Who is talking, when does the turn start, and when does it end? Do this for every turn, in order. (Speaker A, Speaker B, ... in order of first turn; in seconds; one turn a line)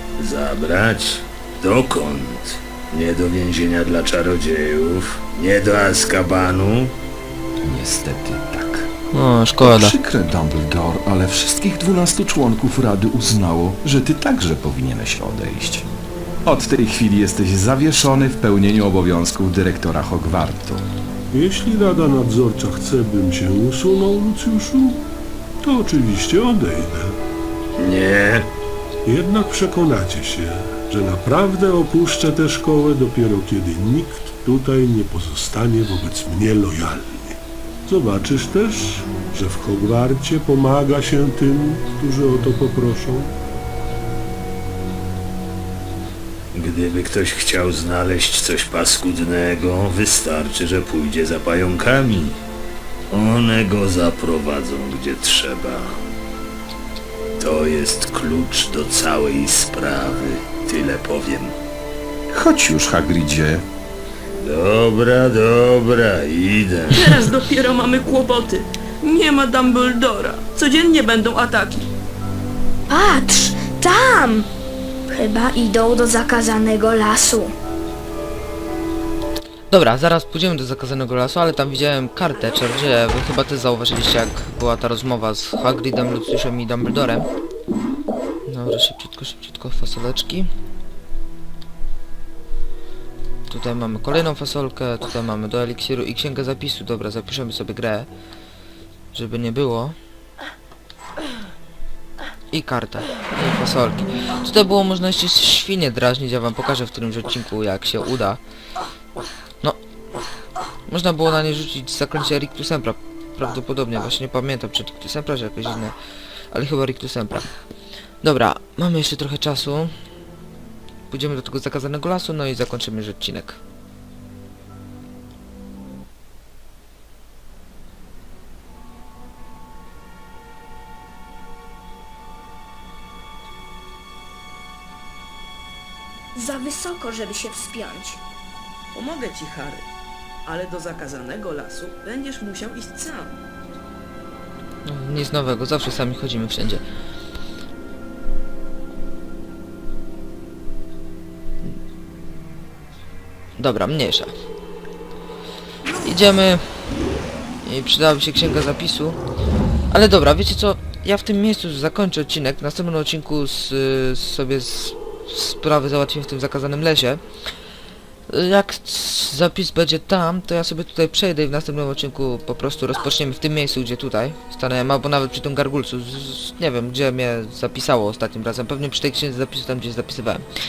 Speaker A: 0.2-6.9
Speaker B: 7.6-8.9
Speaker C: 9.1-10.0
Speaker B: 9.6-15.9
Speaker B: 16.4-20.9
Speaker D: 21.3-25.0
Speaker D: 25.6-27.2
Speaker A: 27.8-28.5
Speaker D: 29.1-43.4
Speaker A: 46.5-52.4
Speaker A: 53.1-56.0
Speaker A: 57.4-61.5
Speaker B: 62.3-63.6
Speaker A: 64.4-67.2
Speaker E: 67.0-71.9
Speaker F: 72.9-74.5
Speaker F: 75.1-77.5
Speaker C: 79.7-87.3
Speaker C: 88.5-90.5
Speaker C: 93.5-98.1
Speaker C: 99.1-100.0
Speaker C: 102.5-108.4
Speaker C: 110.9-116.0
Speaker C: 116.5-117.5
Speaker C: 118.2-119.9
Speaker C: 121.1-123.6
Speaker F: 136.3-138.2
Speaker E: 138.9-139.9
Speaker E: 140.5-143.4
Speaker C: 144.9-146.8
Speaker C: 153.6-154.3
Speaker C: 156.0-156.6
Speaker C: 157.7-159.2
Speaker C: 159.9-167.2
Speaker C: 168.3-180.4